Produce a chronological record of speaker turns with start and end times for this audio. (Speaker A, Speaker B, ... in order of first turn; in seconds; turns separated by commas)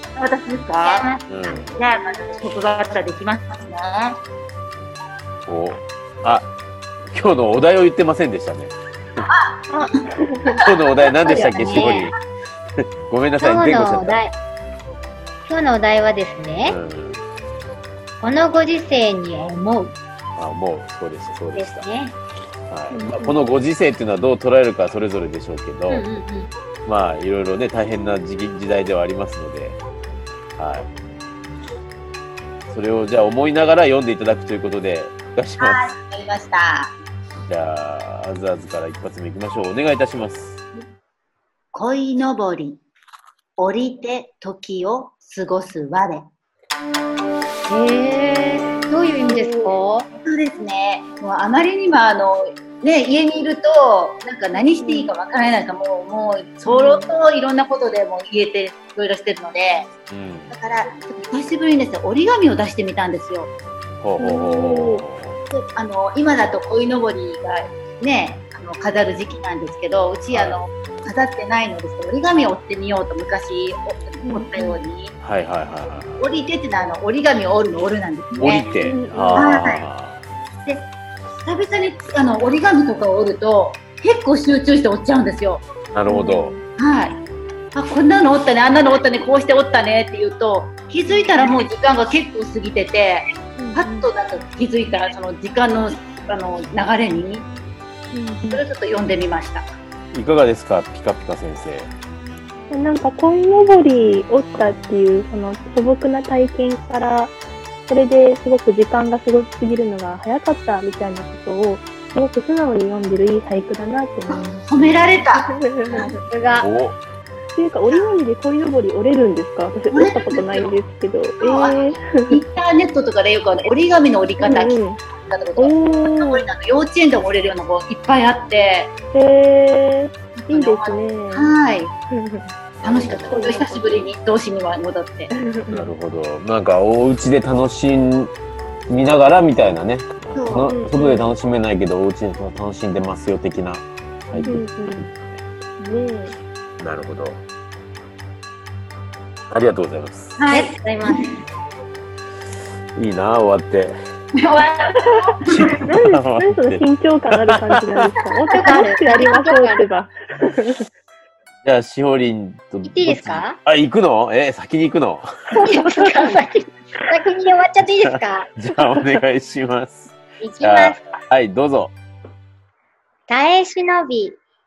Speaker A: 0.1-1.1, Speaker B: 0.8-1.6, Speaker C: 1.3-1.7, Speaker A: 1.7-4.2, Speaker C: 5.5-6.5, Speaker C: 7.1-9.2, Speaker A: 9.2-9.6, Speaker D: 9.7-10.6, Speaker C: 10.6-12.2, Speaker B: 11.2-12.0, Speaker C: 13.1-14.2, Speaker B: 13.4-14.3, Speaker B: 15.4-16.8, Speaker C: 16.6-17.2, Speaker B: 18.2-19.9, Speaker C: 20.4-21.9, Speaker B: 21.6-22.2, Speaker C: 22.7-26.1, Speaker D: 22.9-23.3, Speaker B: 25.9-26.5, Speaker C: 26.8-29.8, Speaker C: 30.6-30.9, Speaker C: 32.7-35.9, Speaker A: 35.6-36.9, Speaker C: 37.4-40.6, Speaker A: 41.7-42.8, Speaker A: 43.6-46.3, Speaker B: 47.7-50.1, Speaker D: 49.3-49.7, Speaker A: 50.1-59.9, Speaker D: 54.8-55.1, Speaker B: 56.7-57.1, Speaker C: 60.1-60.5, Speaker A: 60.5-63.5, Speaker C: 64.0-65.4, Speaker D: 64.2-65.0, Speaker A: 65.5-75.1, Speaker C: 70.3-70.6, Speaker D: 74.2-74.7, Speaker C: 75.2-76.3, Speaker A: 76.2-78.7, Speaker C: 78.4-80.2, Speaker D: 78.8-79.6, Speaker A: 79.3-79.8, Speaker A: 80.6-80.9, Speaker A: 81.4-85.7, Speaker C: 85.9-86.5, Speaker D: 86.1-86.6, Speaker A: 86.8-87.2, Speaker A: 87.7-97.5, Speaker D: 91.1-91.5, Speaker D: 93.6-94.1, Speaker D: 98.1-98.6, Speaker A: 98.5-99.7, Speaker C: 100.1-101.9, Speaker D: 102.7-107.3, Speaker D: 107.9-114.7, Speaker A: 114.3-116.1, Speaker D: 115.3-116.1, Speaker B: 116.2-116.7, Speaker C: 116.5-117.0, Speaker D: 117.5-122.3, Speaker A: 119.9-120.8, Speaker A: 121.4-128.9, Speaker D: 124.4-125.0, Speaker D: 125.6-126.5, Speaker D: 129.1-131.5, Speaker A: 130.3-131.9, Speaker D: 132.1-132.4, Speaker C: 132.8-133.5, Speaker A: 132.8-135.3, Speaker D: 133.3-134.1, Speaker D: 135.3-135.9, Speaker C: 135.7-138.3, Speaker C: 138.9-145.4, Speaker A: 140.3-140.7, Speaker D: 140.6-141.3, Speaker A: 144.3-144.6, Speaker D: 144.5-145.1, Speaker D: 145.8-146.3, Speaker C: 146.8-147.4, Speaker C: 149.5-150.4, Speaker A: 150.4-151.3, Speaker B: 150.5-151.3, Speaker C: 152.9-153.9, Speaker A: 154.4-155.7, Speaker C: 155.4-157.8, Speaker D: 155.9-160.8, Speaker B: 158.5-159.8, Speaker C: 161.6-166.4, Speaker B: 162.8-163.6, Speaker B: 165.5-168.5, Speaker C: 167.8-171.9, Speaker B: 170.4-171.1, Speaker B: 173.3-174.4